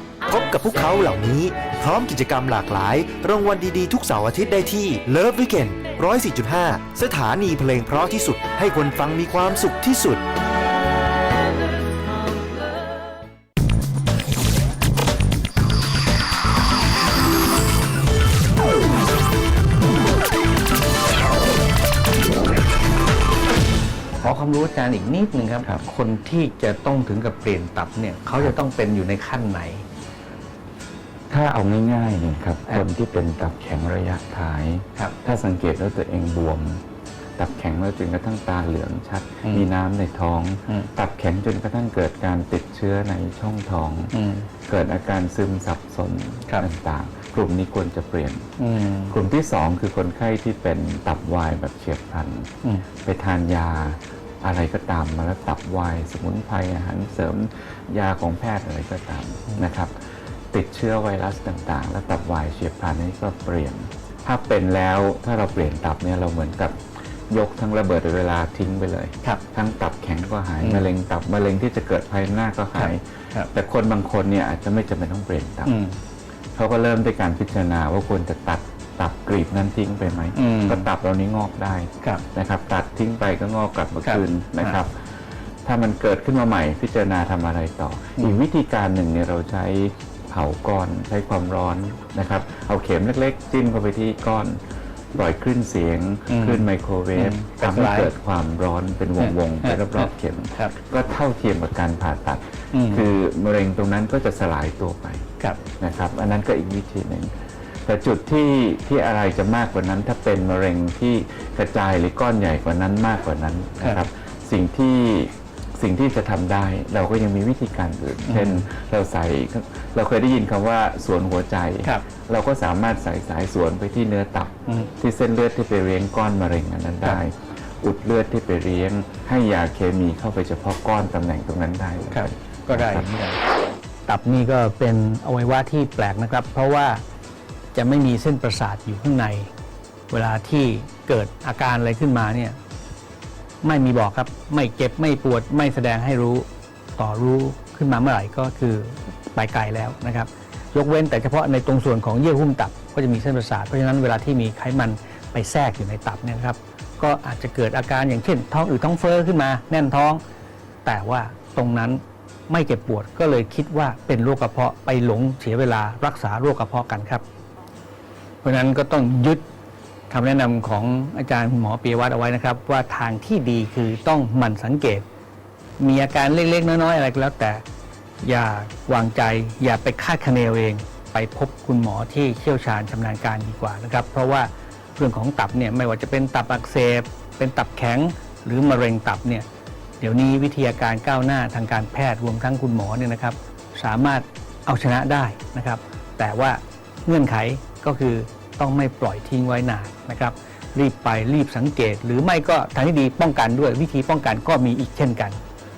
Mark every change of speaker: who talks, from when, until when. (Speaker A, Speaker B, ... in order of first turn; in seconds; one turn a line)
Speaker A: 0.3-10.2
Speaker B: 24.2-29.9
Speaker C: 31.3-36.8
Speaker C: 37.4-44.1
Speaker B: 44.1-44.5
Speaker C: 44.7-48.5
Speaker B: 48.6-49.1
Speaker C: 49.1-52.5
Speaker C: 53.0-75.7
Speaker B: 70.6-70.8
Speaker B: 72.8-73.5
Speaker B: 75.7-76.0
Speaker C: 76.6-85.1
Speaker B: 80.3-80.9
Speaker B: 84.0-84.8
Speaker C: 85.6-94.6
Speaker C: 95.1-107.3
Speaker B: 96.3-96.7
Speaker B: 97.2-98.1
Speaker B: 99.2-100.7
Speaker B: 102.7-103.1
Speaker C: 107.9-133.1
Speaker B: 113.8-114.0
Speaker B: 118.2-118.7
Speaker B: 132.1-133.4
Speaker B: 134.1-137.0
Speaker B: 137.7-139.5
Speaker B: 140.1-142.6
Speaker B: 143.6-146.5
Speaker B: 147.0-160.2
Speaker B: 160.8-167.2
Speaker B: 168.4-169.4
Speaker B: 170.1-175.1
Speaker B: 175.8-177.6
Speaker B: 178.2-189.5
Speaker B: 190.0-205.4